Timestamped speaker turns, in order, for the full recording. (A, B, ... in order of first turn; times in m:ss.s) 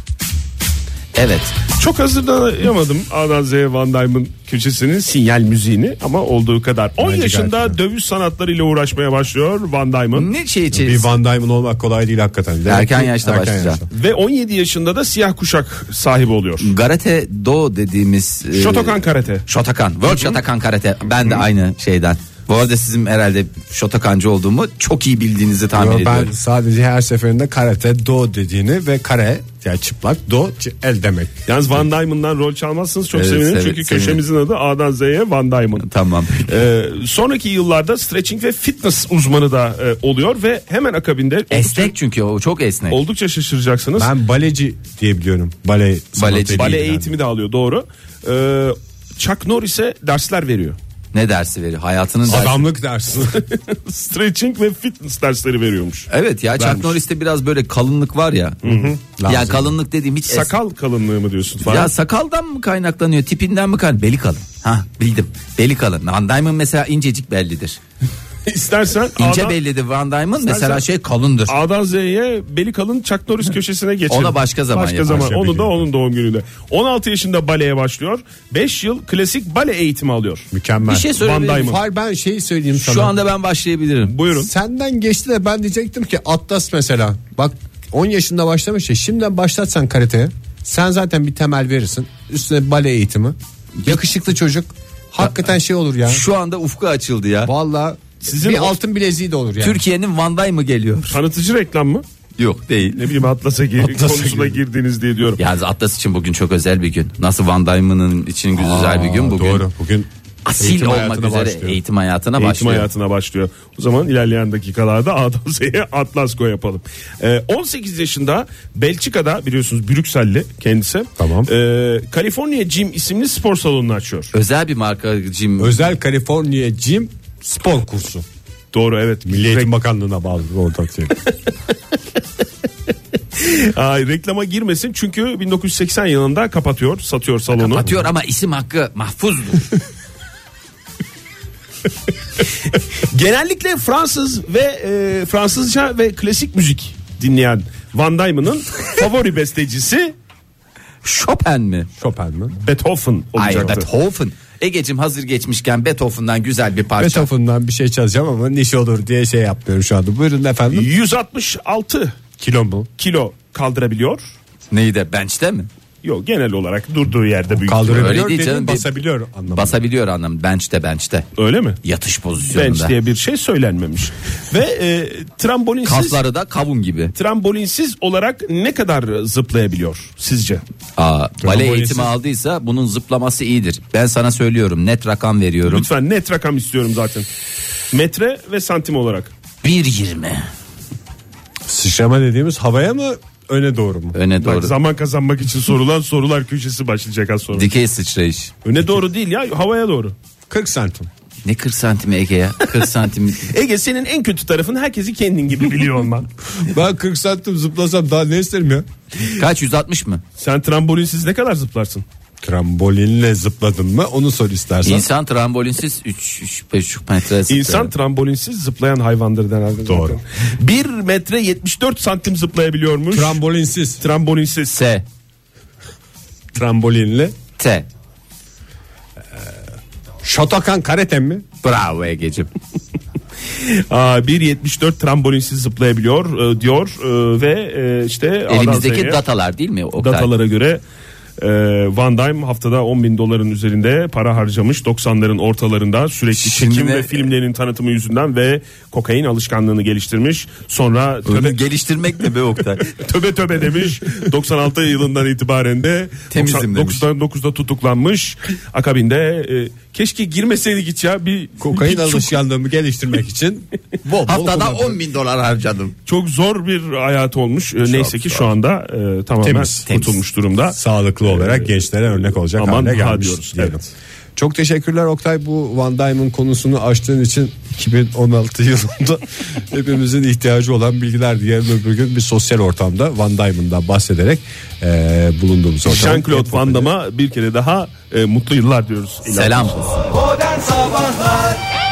0:01.1-0:01.6 A
0:01.8-0:10.3 B
0:07.0-0:07.8 C
0:10.1-0:11.1 A
0:10.7-0:13.9 C
0:12.7-0:13.8 A
0:13.9-0:16.7 B
0:16.6-0:26.3 A
0:18.6-0:19.5 B
0:20.0-0:20.4 B
0:25.7-0:31.3 C
0:31.5-0:35.9 B
0:33.1-0:34.2 A
0:35.8-0:36.6 A
0:36.4-0:41.9 B
0:41.5-0:43.0 A
0:42.9-0:44.1 B
0:44.0-0:47.2 C
0:46.2-0:46.8 A
0:46.6-0:50.8 B
0:51.1-0:52.6 A
0:52.2-0:53.4 C
0:53.3-0:57.0 B
0:56.1-1:00.5 A
0:58.6-0:59.0 B
0:59.0-0:59.7 C
1:00.3-1:01.9 B
1:01.6-1:07.8 A
1:08.5-1:09.6 B
1:09.2-1:11.6 A
1:10.4-1:10.8 B
1:11.5-1:20.5 B
1:14.1-1:15.3 A
1:15.1-1:15.8 C
1:20.5-1:23.1 C
1:20.8-1:21.7 A
1:21.2-1:21.8 B
1:22.8-1:24.2 A
1:24.1-1:24.5 B
1:24.4-1:36.2 C
1:36.1-1:37.5 A
1:37.5-1:39.8 C
1:38.2-1:38.8 B
1:39.6-1:41.2 A
1:41.1-1:42.0 B
1:42.4-1:43.1 A
1:43.0-1:45.4 B
1:43.8-1:44.6 C
1:45.4-1:49.6 A
1:48.6-1:51.8 C
1:50.4-1:52.9 A
1:52.4-2:04.3 B
2:01.2-2:01.5 C
2:04.3-2:05.8 A
2:05.6-2:08.2 C
2:08.7-2:09.7 B
2:09.2-2:11.2 C
2:13.3-2:17.9 B
2:17.5-2:19.7 A
2:22.7-2:30.1 B
2:31.0-2:31.9 A
2:32.0-2:32.6 C
2:32.6-2:33.9 B
2:33.4-2:37.3 A
2:37.0-2:40.9 C
2:40.7-2:42.1 B
2:42.4-2:42.9 C
2:43.0-2:44.3 B
2:44.7-2:45.7 A
2:46.0-2:48.2 B
2:47.5-2:49.8 C
2:47.9-2:48.9 A
2:49.5-2:51.3 A
2:51.4-2:51.8 B
2:51.8-2:52.9 A
2:52.5-2:56.2 B
2:55.9-2:57.1 A
2:57.2-3:00.6 B
3:01.0-3:05.9 A
3:01.4-3:02.1 C
3:05.6-3:07.2 B
3:07.9-3:09.3 B
3:09.6-3:10.5 A
3:11.6-3:14.2 C
3:14.1-3:14.7 A
3:14.4-3:17.7 B
3:17.5-3:18.5 A
3:18.6-3:20.1 B
3:20.5-3:21.1 C
3:21.4-3:23.5 A
3:23.4-3:26.3 B
3:26.6-3:28.8 C
3:29.2-3:30.2 A
3:30.4-3:32.0 B
3:32.4-3:35.1 C
3:34.8-3:37.9 A
3:37.5-3:43.4 B
3:39.9-3:40.2 C
3:43.1-3:44.0 C
3:44.0-3:44.8 B
3:44.7-3:45.0 A
3:46.5-3:47.4 C
3:47.6-3:47.9 A
3:50.2-3:51.4 C
3:51.6-3:52.5 A
3:53.6-3:59.2 B
3:58.5-4:00.3 A
4:00.0-4:00.8 B
4:01.4-4:11.6 B
4:06.4-4:07.2 A
4:11.3-4:12.9 A
4:12.8-4:22.4 B
4:16.3-4:17.0 A
4:21.6-4:25.0 C
4:24.1-4:25.9 A
4:26.1-4:33.8 B
4:27.9-4:28.5 A
4:29.4-4:29.9 C
4:29.9-4:30.2 A
4:30.7-4:46.9 C
4:45.8-4:50.1 B
4:49.3-4:50.3 A